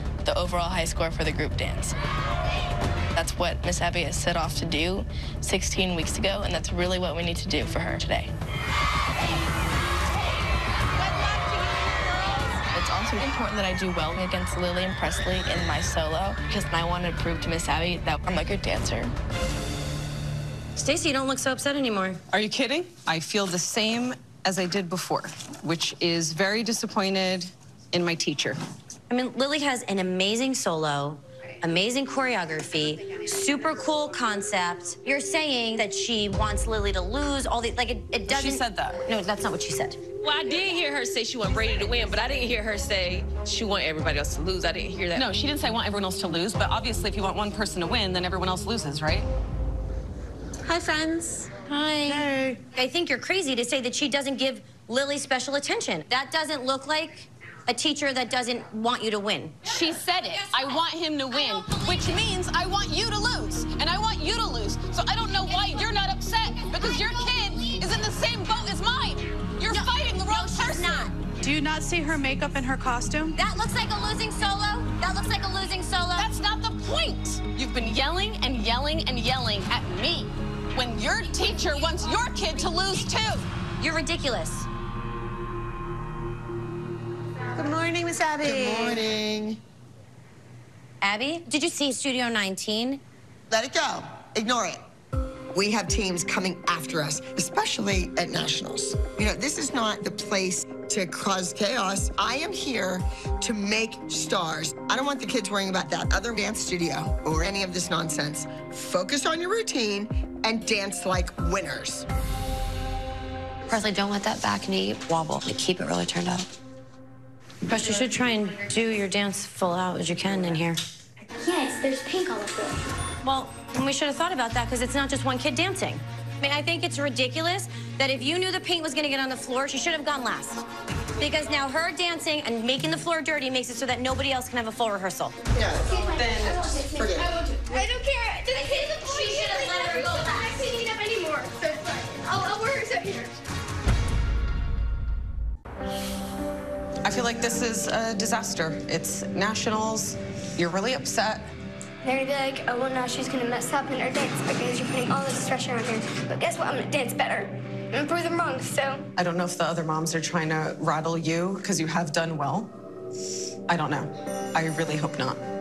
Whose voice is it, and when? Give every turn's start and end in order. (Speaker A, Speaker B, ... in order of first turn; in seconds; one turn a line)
Speaker A: 0.2-1.9
Speaker A: 3.1-8.3
Speaker A: 12.7-19.1
Speaker B: 20.8-22.2
Speaker C: 22.3-28.6
Speaker B: 29.1-40.0
Speaker C: 38.3-39.0
Speaker D: 40.2-45.2
Speaker C: 45.1-49.3
Speaker D: 50.7-51.5
Speaker B: 51.6-59.8
Speaker C: 59.6-71.1
Speaker B: 61.3-62.2
Speaker B: 69.7-71.1
Speaker E: 71.4-73.3
Speaker B: 73.3-76.3
Speaker C: 76.2-83.5
Speaker B: 83.8-84.7
Speaker D: 87.6-87.9
Speaker F: 88.4-89.6
Speaker D: 88.5-88.9
Speaker B: 91.0-93.0
Speaker F: 93.5-94.8
Speaker F: 95.5-112.1
Speaker B: 113.7-116.5
Speaker B: 117.7-120.8
Speaker B: 123.2-130.6
Speaker B: 131.2-135.3
Speaker F: 135.5-136.0
Speaker G: 135.8-143.4
Speaker C: 136.0-136.8
Speaker F: 136.9-137.3
Speaker B: 138.5-140.4
Speaker C: 147.0-151.5
Speaker G: 152.0-159.0
Speaker C: 159.2-162.7
Speaker C: 163.7-165.4